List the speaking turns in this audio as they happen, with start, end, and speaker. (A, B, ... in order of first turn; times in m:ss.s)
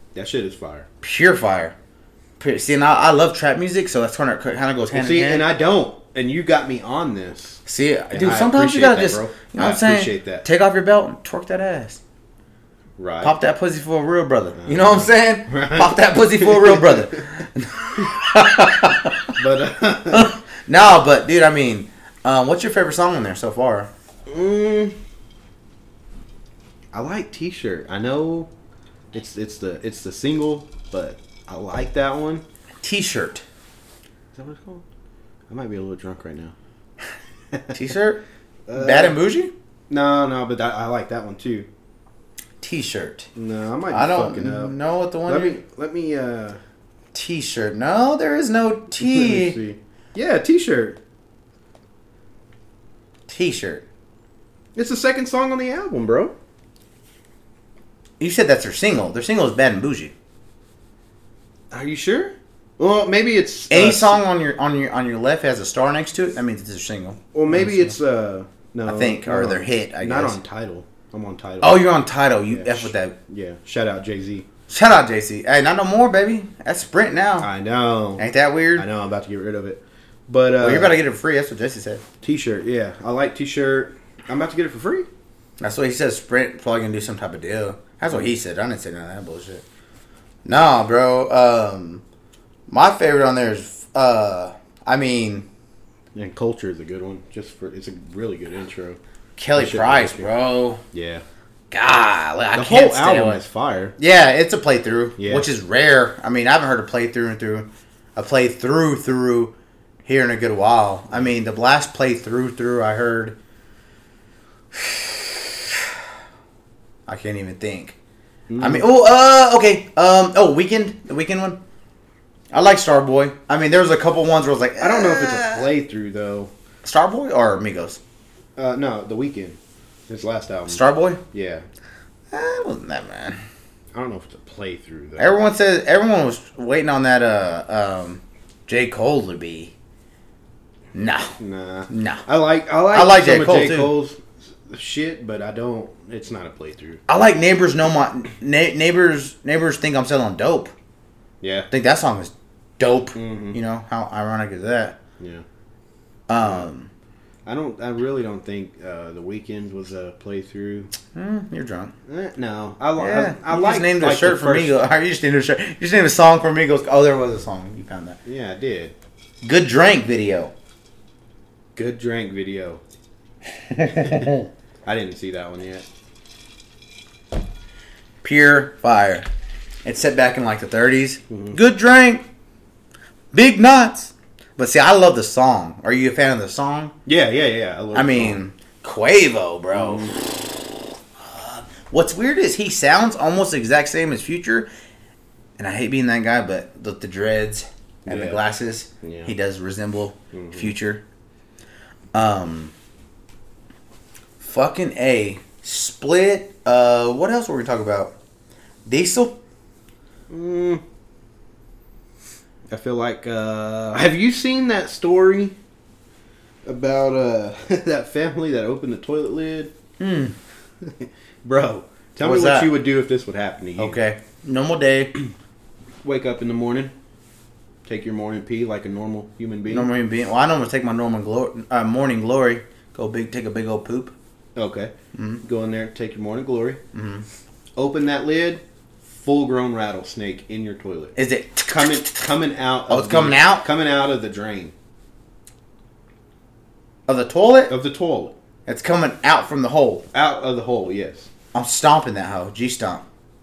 0:00.1-0:00.9 A
0:01.0-0:01.8 B
0:02.4-0:05.5 B
0:04.9-0:10.4 A
0:07.7-0:12.0 B
0:13.0-0:13.3 A
0:13.2-0:19.4 B
0:14.6-0:17.0 A
0:19.4-0:20.3 A
0:20.1-0:23.9 B
0:24.3-0:25.0 A
0:26.9-0:28.5 A
0:29.1-0:32.4 A
0:32.8-0:33.4 B
0:34.3-0:34.8 A
0:35.5-0:36.5 A
0:37.7-0:38.2 B
0:38.7-0:39.2 A
0:38.7-0:39.5 B
0:39.9-0:41.7 A
0:42.6-0:43.3 B
0:43.4-0:46.6 A
0:43.9-0:45.6 B
0:47.1-0:49.6 B
0:49.0-0:51.0 A
0:53.3-0:53.8 B
0:54.8-0:56.3 A
0:58.2-1:00.1 B
1:01.7-1:04.2 A
1:03.7-1:08.0 B
1:07.3-1:11.9 A
1:08.9-1:10.4 B
1:11.6-1:13.2 B
1:12.5-1:14.5 A
1:14.7-1:17.5 B
1:17.4-1:21.0 A
1:18.2-1:18.9 B
1:20.6-1:22.0 B
1:22.2-1:25.1 A
1:25.6-1:29.6 B
1:30.5-1:32.0 B
1:32.7-1:35.5 B
1:36.1-1:39.0 A
1:39.4-1:40.8 B
1:39.6-1:40.3 A
1:40.9-1:41.2 A
1:41.7-1:43.4 B
1:42.5-1:44.0 A
1:44.0-1:49.5 B
1:45.2-1:45.5 A
1:50.0-1:53.4 B
1:54.7-1:55.5 B
1:57.1-1:58.0 B
1:58.5-1:58.9 A
1:58.6-2:01.6 B
2:02.5-2:05.7 B
2:04.8-2:06.5 A
2:06.8-2:08.0 B
2:08.6-2:11.6 A
2:10.7-2:11.2 B
2:12.3-2:13.4 B
2:13.9-2:15.4 A
2:15.2-2:19.7 B
2:20.9-2:21.3 B
2:21.4-2:27.0 A
2:21.9-2:22.2 B
2:22.9-2:23.9 B
2:27.1-2:30.7 B
2:31.4-2:31.7 A
2:31.7-2:35.0 B
2:33.2-2:33.6 A
2:35.2-2:35.4 A
2:36.3-2:36.9 B
2:37.5-2:40.9 A
2:41.1-2:41.9 B
2:42.1-2:44.9 A
2:43.0-2:48.2 B
2:48.2-2:48.9 A
2:49.4-2:50.5 B
2:51.8-2:52.8 A
2:53.7-2:54.4 B
2:54.0-2:54.3 A
2:54.8-2:55.8 A
2:58.2-2:59.3 B
2:59.8-3:02.2 B
3:03.3-3:07.0 B
3:07.1-3:08.4 A
3:07.9-3:10.7 B
3:09.7-3:10.1 A
3:11.2-3:14.7 B
3:15.6-3:21.0 B
3:18.1-3:18.4 A
3:19.0-3:19.3 A
3:20.3-3:20.7 A
3:22.1-3:22.7 B
3:24.4-3:28.2 B
3:28.9-3:29.4 B
3:30.3-3:30.8 A
3:32.7-3:35.6 A
3:36.6-3:39.7 A
3:40.0-3:40.4 B
3:40.8-3:44.0 A
3:42.2-3:42.7 B
3:43.8-3:45.2 B
3:46.0-3:46.9 A
3:47.8-3:49.9 A
3:49.7-3:54.1 B
3:54.6-3:56.8 A
3:55.1-3:55.4 B
3:56.9-3:57.2 B
3:57.8-4:01.2 A
4:01.2-4:02.3 B
4:01.7-4:04.7 A
4:02.9-4:03.7 B
4:07.1-4:07.8 B
4:07.7-4:08.4 A
4:08.7-4:10.0 B
4:10.1-4:11.3 A
4:11.5-4:13.0 B